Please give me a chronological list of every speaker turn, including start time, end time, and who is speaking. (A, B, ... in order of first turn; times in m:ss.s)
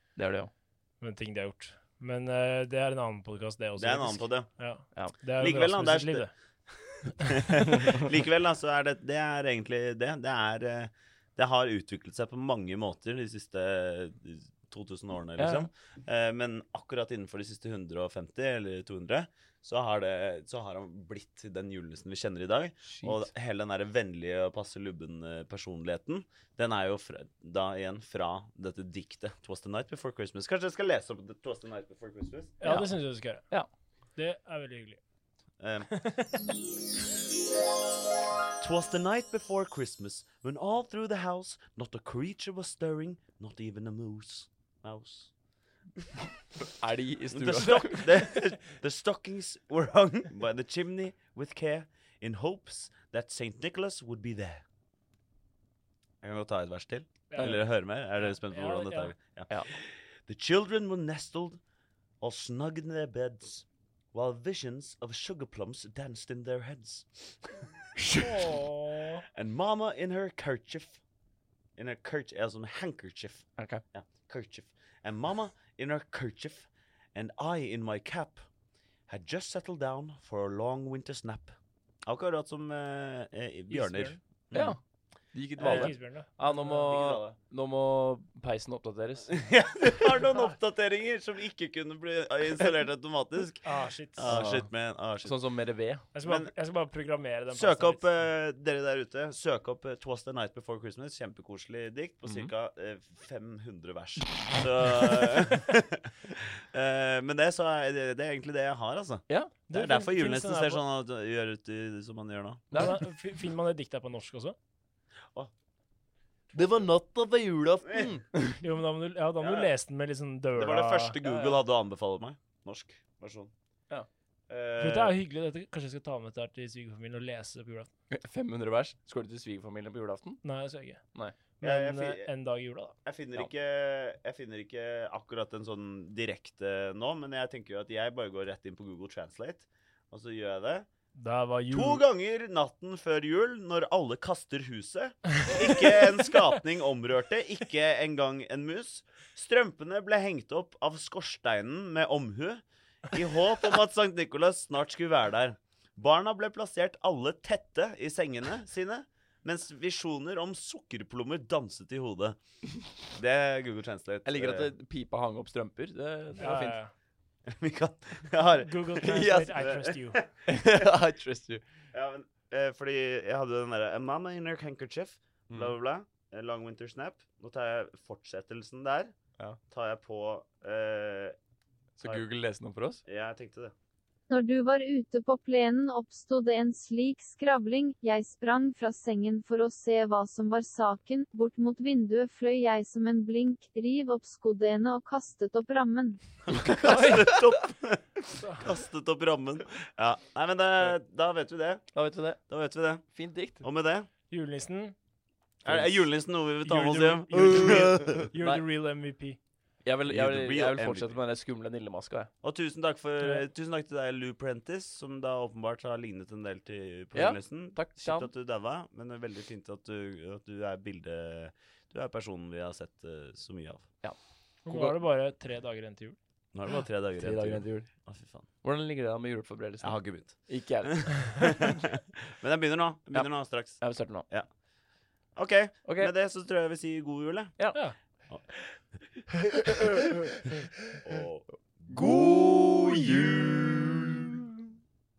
0:00.2-0:00.5 A
0:01.0-0:06.3 B
0:03.8-0:04.5 C
0:05.4-0:06.3 C
0:07.0-0:32.6 C
0:07.1-0:07.4 B
0:15.4-0:15.7 A
0:22.9-0:23.3 A
0:32.6-0:33.6 B
0:32.6-0:33.7 A
0:34.2-0:35.0 B
0:35.6-0:35.9 C
0:35.9-0:36.2 B
0:38.6-0:45.3 C
0:46.8-0:48.1 A
0:47.3-0:54.6 C
0:56.2-1:01.6 C
0:57.3-0:59.1 B
0:57.3-0:57.6 A
1:02.2-1:07.7 C
1:08.2-1:09.2 B
1:09.4-1:11.0 C
1:11.8-1:18.4 C
1:13.6-1:13.8 A
1:19.1-1:21.6 C
1:22.1-1:24.8 C
1:23.7-1:24.2 B
1:24.5-1:24.8 A
1:25.3-1:29.3 A
1:25.6-1:26.0 C
1:25.6-1:26.9 B
1:26.9-1:27.4 C
1:29.3-1:35.4 C
1:33.6-1:34.4 B
1:34.2-1:34.7 A
1:35.2-1:36.0 A
1:36.1-1:38.1 B
1:36.2-1:36.5 C
1:37.5-1:52.7 C
1:49.7-1:50.8 B
1:52.7-1:53.0 A
1:52.7-1:54.6 B
1:56.5-1:58.6 A
1:58.6-2:01.2 B
1:59.4-1:59.7 C
2:00.6-2:03.5 C
2:01.2-2:01.6 A
2:04.5-2:05.2 C
2:04.8-2:07.9 B
2:08.1-2:10.4 A
2:10.4-2:11.0 B
2:11.6-2:13.0 B
2:11.6-2:12.3 C
2:13.0-2:20.9 C
2:21.1-2:22.0 B
2:21.7-2:42.4 C
2:43.1-2:44.7 C
2:44.2-2:46.8 A
2:46.4-2:46.9 B
2:47.5-2:50.4 C
2:48.5-2:50.2 B
2:49.2-2:49.5 A
2:50.5-2:51.6 A
2:51.9-2:59.1 C
2:55.5-2:55.8 A
2:59.7-3:01.4 C
3:02.0-3:03.0 A
3:03.0-3:03.7 C
3:04.3-3:16.2 D
3:16.5-3:21.8 C
3:16.5-3:17.3 A
3:16.8-3:17.3 B
3:18.4-3:18.7 B
3:21.9-3:22.4 A
3:22.5-3:23.0 C
3:23.1-3:23.6 A
3:23.6-3:24.1 C
3:24.3-3:24.9 B
3:25.6-3:28.3 C
3:26.6-3:29.4 B
3:28.4-3:28.6 A
3:29.8-3:32.3 A
3:30.1-3:31.2 C
3:32.4-3:43.9 C
3:37.1-3:38.3 A
3:44.6-3:46.2 B
3:44.7-3:45.0 A
3:46.5-3:48.5 C
3:47.2-3:47.9 A
3:48.6-3:51.3 A
3:49.8-3:51.9 C
3:52.4-3:54.5 C
3:53.1-3:54.3 A
3:55.4-3:57.6 C
3:55.8-3:56.1 A
3:59.5-4:00.1 A
4:01.0-4:03.8 C
4:01.9-4:04.4 A